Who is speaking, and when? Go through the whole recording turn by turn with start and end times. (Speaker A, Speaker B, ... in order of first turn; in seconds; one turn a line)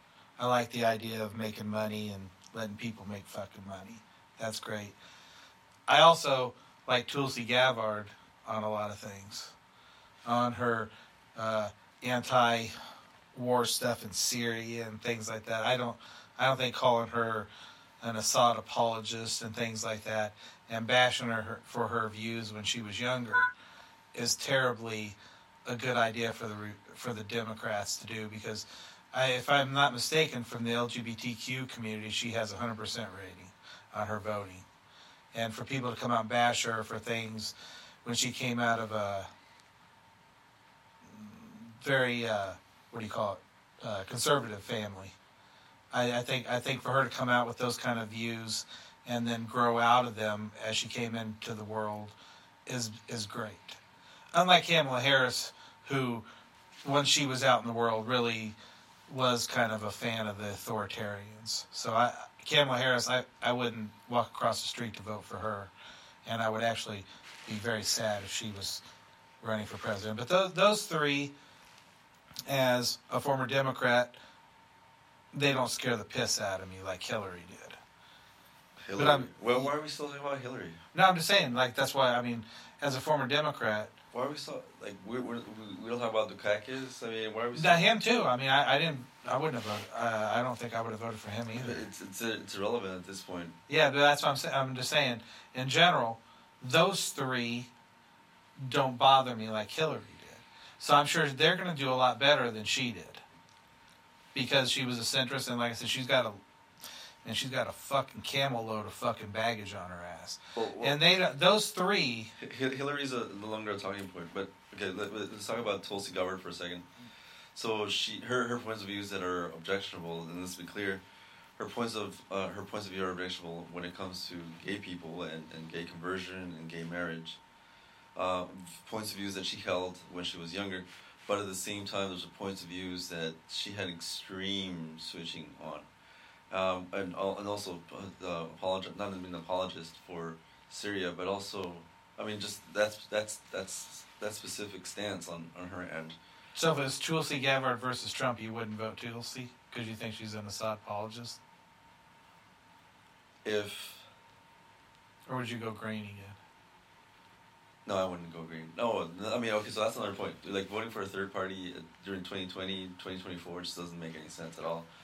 Speaker A: 0.4-5.0
Speaker A: 5.9-9.5
Speaker A: 10.2-12.7
Speaker A: 13.3-17.5
Speaker A: 18.0-23.5
Speaker A: 24.1-34.6
Speaker A: 35.3-39.3
Speaker A: 41.0-45.1
Speaker A: 45.9-53.8
Speaker A: 54.3-56.2
Speaker A: 56.8-58.6
Speaker A: 59.1-65.7
Speaker A: 66.2-68.8
Speaker A: 69.4-71.3
Speaker A: 72.5-74.2
Speaker A: 75.3-77.8
Speaker B: 78.9-80.8
Speaker A: 79.0-79.7
Speaker A: 80.9-83.9
Speaker B: 84.1-87.9
Speaker A: 87.5-91.8
Speaker B: 91.6-93.5
Speaker A: 93.7-97.7
Speaker A: 98.6-103.2
Speaker A: 104.3-106.4
Speaker A: 107.2-112.3
Speaker B: 110.5-111.0
Speaker B: 112.4-116.9
Speaker B: 117.5-121.0
Speaker B: 121.6-127.4
Speaker B: 128.2-135.9
Speaker B: 136.5-146.2
Speaker A: 146.6-151.4
Speaker B: 153.4-154.1
Speaker A: 155.3-156.4
Speaker B: 157.9-164.9